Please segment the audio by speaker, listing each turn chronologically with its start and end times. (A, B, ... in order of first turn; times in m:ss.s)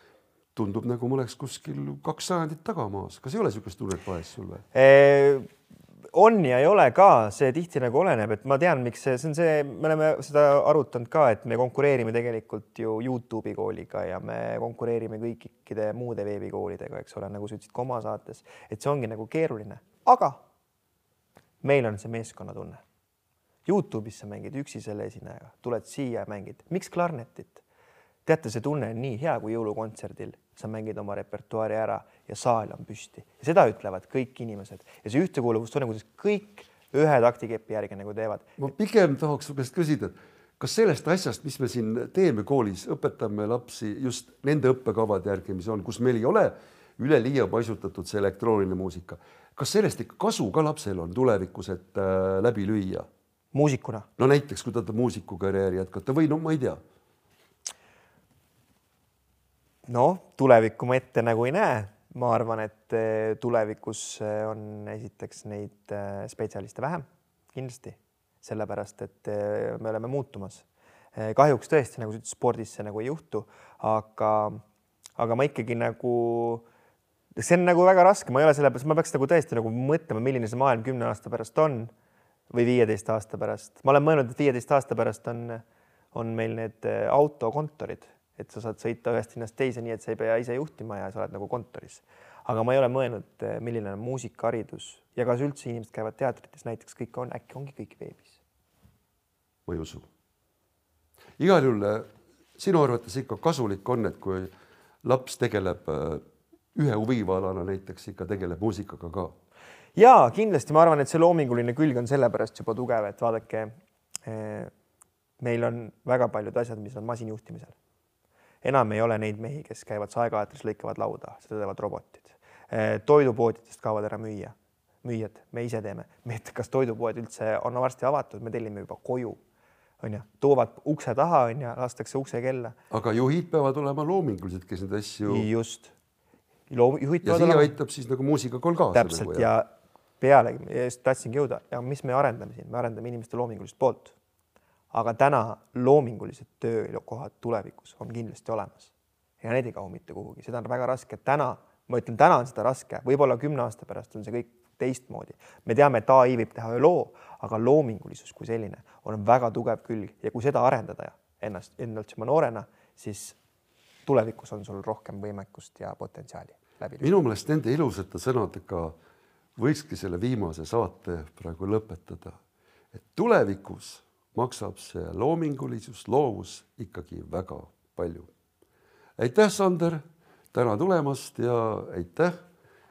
0:00.5-0:04.6 A
0:04.7-0:05.5 B
0:06.1-0:20.4 B
0:21.6-0:22.8 B
0:23.6-0:27.6 B
0:28.2-0:38.6 B
0:38.6-0:53.1 A
0:53.5-0:54.1 B
0:54.2-0:56.8 A
0:59.9-1:10.6 B
1:11.2-1:14.6 B
1:15.2-1:16.6 B
1:17.4-1:21.9 B
1:22.5-1:38.4 B
1:39.6-1:40.1 A
1:41.4-1:44.5 A
1:45.0-1:49.4 A
1:50.0-1:53.7 B
1:54.2-1:54.7 B
1:55.4-1:57.7 B
1:58.6-2:09.4 B
2:10.0-2:12.8 B
2:12.9-2:15.5 A
2:15.2-2:15.9 B
2:16.7-2:17.7 B
2:17.2-2:19.5 A
2:18.9-2:19.7 B
2:20.2-2:24.1 B
2:24.9-2:43.4 B
2:44.0-2:47.1 B
2:47.0-2:48.9 A
2:49.6-2:52.4 A
2:52.9-2:58.3 A
2:59.2-3:02.4 A